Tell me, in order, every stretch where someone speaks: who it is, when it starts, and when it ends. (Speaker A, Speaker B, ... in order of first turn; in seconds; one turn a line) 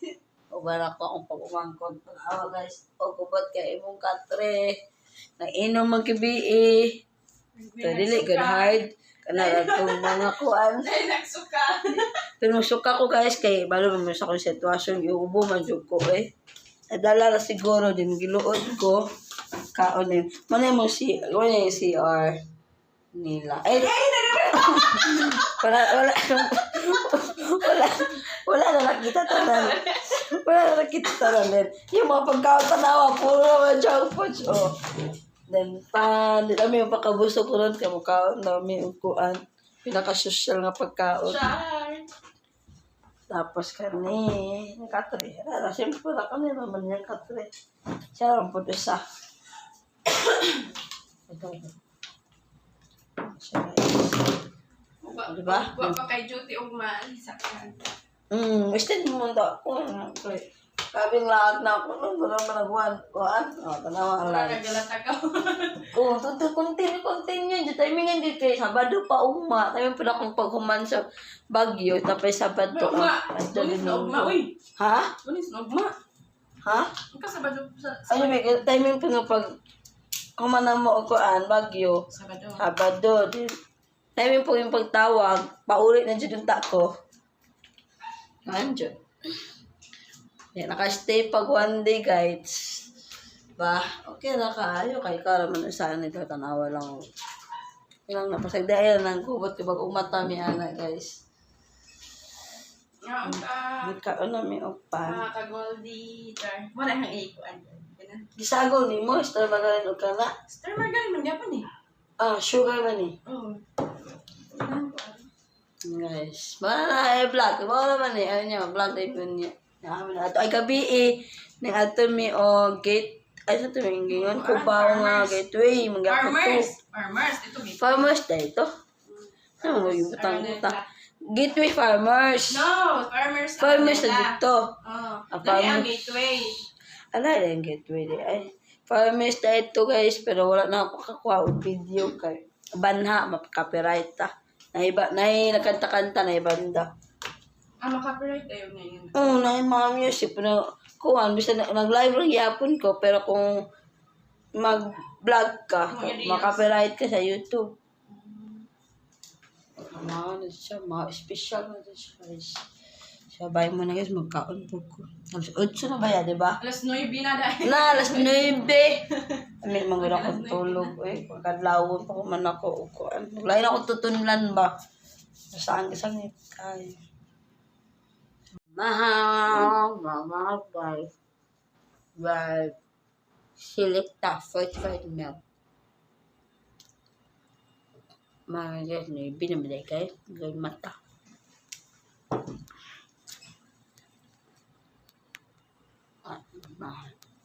Speaker A: 0.5-4.7
Speaker A: 5.4-6.9
Speaker B: 7.6-8.8
Speaker A: 7.8-10.9
Speaker B: 9.3-12.1
Speaker A: 12.4-16.3
Speaker A: 16.9-19.0
Speaker A: 19.7-22.4
Speaker A: 23.1-34.7
Speaker B: 23.7-25.6
Speaker B: 29.1-30.2
Speaker A: 35.5-41.4
Speaker B: 41.2-42.1
Speaker A: 43.3-47.5
Speaker A: 48.1-49.0
Speaker A: 51.3-51.7
Speaker A: 53.3-54.3
Speaker B: 55.0-57.8
Speaker A: 55.3-56.0
Speaker A: 58.3-64.6
Speaker B: 64.2-66.0
Speaker A: 65.9-75.2
Speaker B: 72.7-74.5
Speaker B: 75.2-75.9
Speaker A: 76.6-76.9
Speaker B: 77.1-78.6
Speaker A: 78.1-79.5
Speaker A: 80.4-82.0
Speaker B: 82.1-82.7
Speaker A: 82.6-83.5
Speaker A: 84.2-86.9
Speaker A: 88.5-89.0
Speaker A: 90.5-92.8
Speaker A: 93.6-97.0
Speaker A: 98.1-101.2
Speaker B: 103.0-103.9
Speaker A: 103.3-105.2
Speaker B: 105.0-108.3
Speaker A: 108.3-110.3
Speaker B: 110.5-111.7
Speaker A: 112.2-113.2
Speaker B: 113.2-113.6
Speaker B: 114.5-115.3
Speaker A: 115.8-126.7
Speaker B: 124.1-125.4
Speaker B: 126.0-128.1
Speaker A: 127.8-128.7
Speaker B: 129.6-130.9
Speaker A: 129.6-130.8
Speaker A: 131.3-132.7
Speaker B: 132.5-136.6
Speaker A: 133.6-134.8
Speaker A: 135.3-136.1
Speaker A: 137.1-146.9
Speaker B: 147.8-149.4
Speaker A: 149.1-153.6
Speaker A: 154.6-157.7
Speaker B: 155.9-156.6
Speaker B: 158.1-158.7
Speaker A: 159.9-162.6
Speaker A: 163.3-166.6
Speaker B: 166.6-168.6
Speaker A: 167.6-169.0
Speaker B: 169.2-170.9
Speaker A: 169.6-174.7
Speaker A: 175.5-176.9
Speaker A: 178.7-181.1
Speaker A: 182.2-182.8
Speaker A: 183.6-185.4
Speaker A: 188.5-190.9
Speaker A: 196.2-197.1